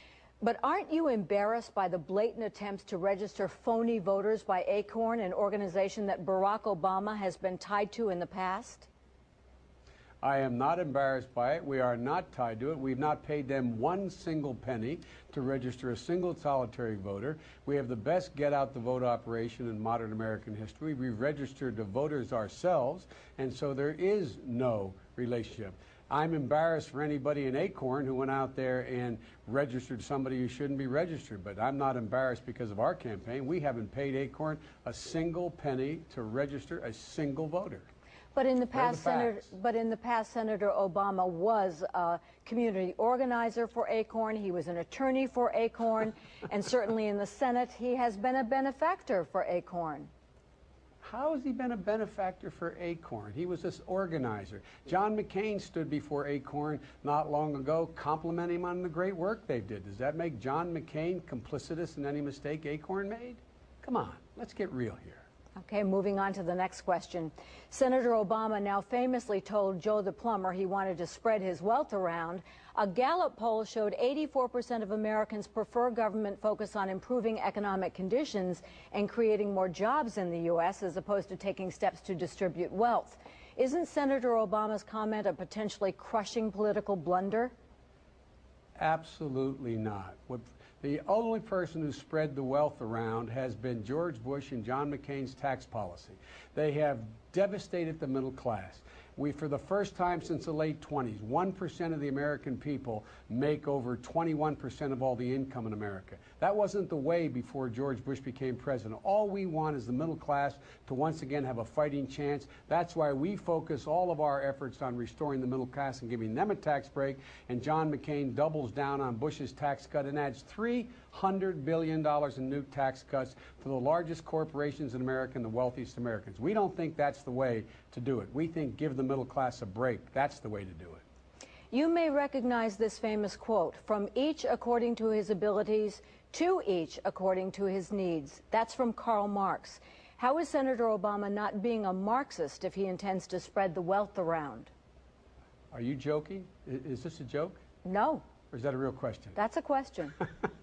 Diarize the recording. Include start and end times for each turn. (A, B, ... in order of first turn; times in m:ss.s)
0:00.4-0:08.9 A
0:10.2-0:37.9 B
0:38.3-0:50.1 A
0:38.7-0:39.5 B
0:51.0-1:05.2 B
1:05.6-1:27.5 A
1:28.8-2:11.0 B
2:11.7-2:24.7 A
2:25.7-2:27.6 B
2:27.8-2:28.2 A
2:28.5-2:29.4 B
2:29.4-2:30.2 A